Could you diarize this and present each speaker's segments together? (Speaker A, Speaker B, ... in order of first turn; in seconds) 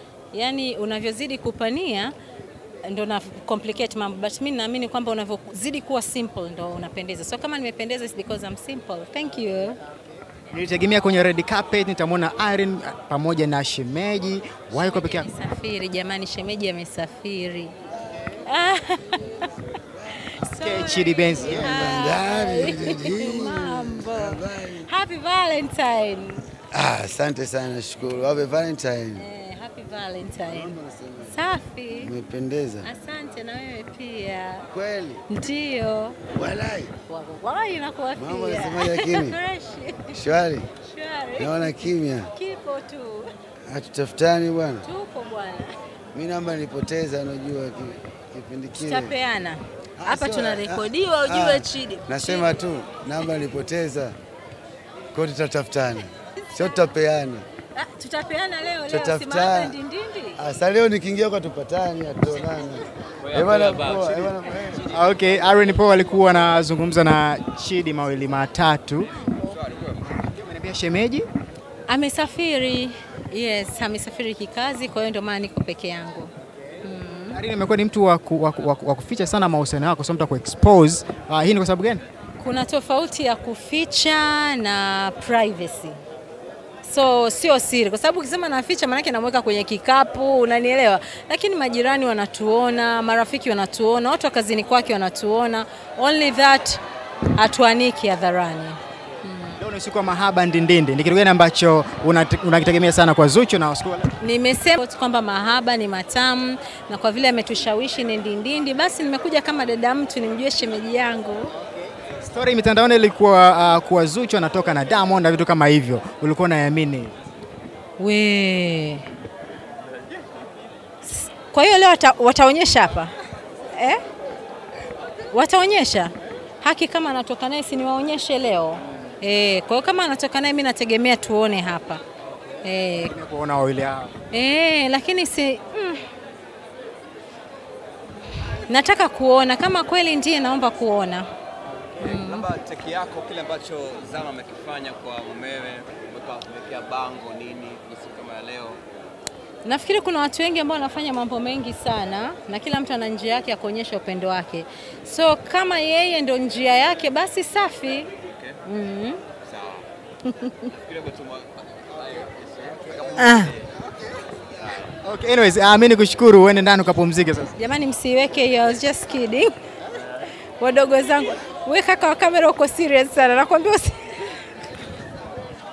Speaker A: 0.3-2.1, 2.9-9.8, 14.7-17.7, 18.4-19.2, 20.2-26.5, 29.2-30.7, 31.3-32.1, 32.8-34.7, 35.3-36.3, 37.1-40.2, 40.8-43.3, 44.8-45.8, 48.8-52.7, 56.5-56.9, 57.8-60.4, 71.9-76.3, 76.8-77.4, 82.4-86.0, 86.8-96.8, 97.3-99.6, 104.2-111.5, 118.0-119.0, 121.0-123.1, 123.7-124.0, 125.3-132.0, 132.6-133.1, 134.3-136.1, 138.5-141.3, 142.0-142.5, 149.7-158.1, 158.7-159.2, 160.3-160.7, 163.2-163.6, 167.6-169.5, 170.6-174.3
Speaker B: 10.5-15.3, 20.5-22.0, 64.9-69.2, 70.1-71.3, 77.3-82.0, 99.6-104.1, 111.6-117.1, 133.1-134.2, 141.8-142.1, 165.0-167.5
Speaker C: 21.4-24.9, 26.7-29.2, 30.4-31.4, 32.0-32.9, 34.7-35.2, 36.3-36.9, 38.2-39.4, 40.1-40.7, 41.4-42.3, 43.7-44.9, 46.1-49.1, 50.0-54.2, 55.1-57.5, 58.9-59.8, 60.4-64.9
Speaker D: 63.2-64.8, 69.3-70.1, 142.0-148.8, 158.3-158.6, 159.4-159.9, 160.7-163.7